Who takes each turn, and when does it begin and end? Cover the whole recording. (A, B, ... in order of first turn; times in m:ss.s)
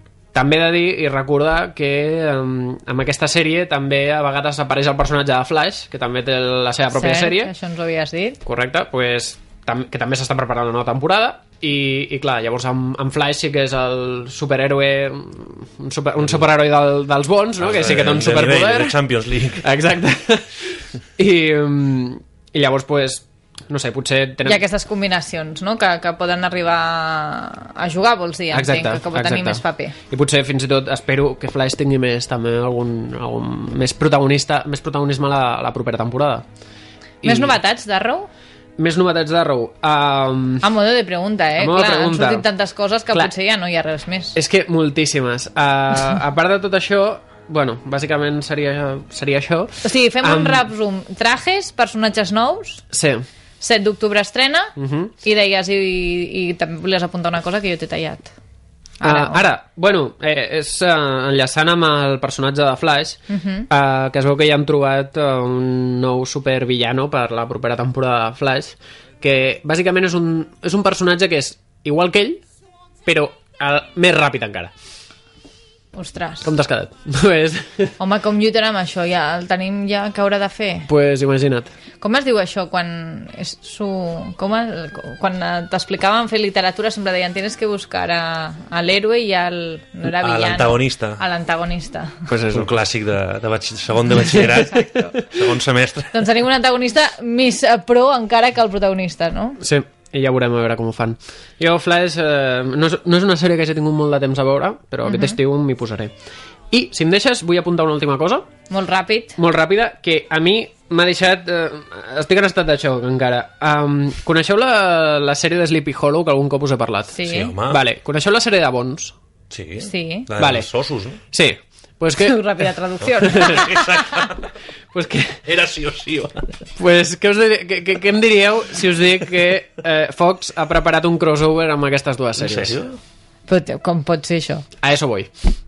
0:00.3-0:07.5 A
0:06.9-0:08.4 B
0:08.4-0:19.0 A
0:17.6-0:19.6 C
0:19.6-0:24.6 A
0:24.4-0:29.9 B
0:28.5-0:36.4 A
0:37.2-0:37.6 A
0:37.2-0:38.3 B
0:38.8-0:40.6 A
0:40.6-0:44.3 B
0:41.6-0:42.4 A
0:44.3-0:50.7 A
0:49.8-0:52.8 B
0:52.9-0:53.2 A
0:53.6-0:58.3 B
0:54.8-0:55.1 A
0:59.0-0:59.4 B
0:59.0-1:12.4 A
1:03.3-1:03.7 B
1:13.0-1:14.7 A
1:15.9-1:16.5 B
1:16.4-1:17.9 A
1:18.0-1:20.9 B
1:20.9-1:21.7 A
1:22.0-1:32.1 B
1:30.1-1:31.2 C
1:32.3-1:32.7 A
1:32.5-1:36.2 C
1:34.2-1:35.1 A
1:34.5-1:35.1 B
1:36.1-1:39.6 B
1:39.6-1:46.1 A
1:45.0-1:45.4 B
1:46.7-1:48.5 A
1:48.7-1:49.4 B
1:49.4-1:59.1 A
1:57.1-1:57.5 B
1:57.2-1:57.8 C
1:59.5-2:01.2 C
1:59.8-2:00.3 B
2:00.4-2:00.7 A
2:01.2-2:02.4 A
2:02.2-2:04.2 B
2:03.2-2:03.7 A
2:03.4-2:04.5 C
2:04.9-2:05.4 A
2:05.4-2:06.5 C
2:06.8-2:12.8 A
2:12.4-2:13.0 C
2:13.5-2:14.6 B
2:14.8-2:15.3 A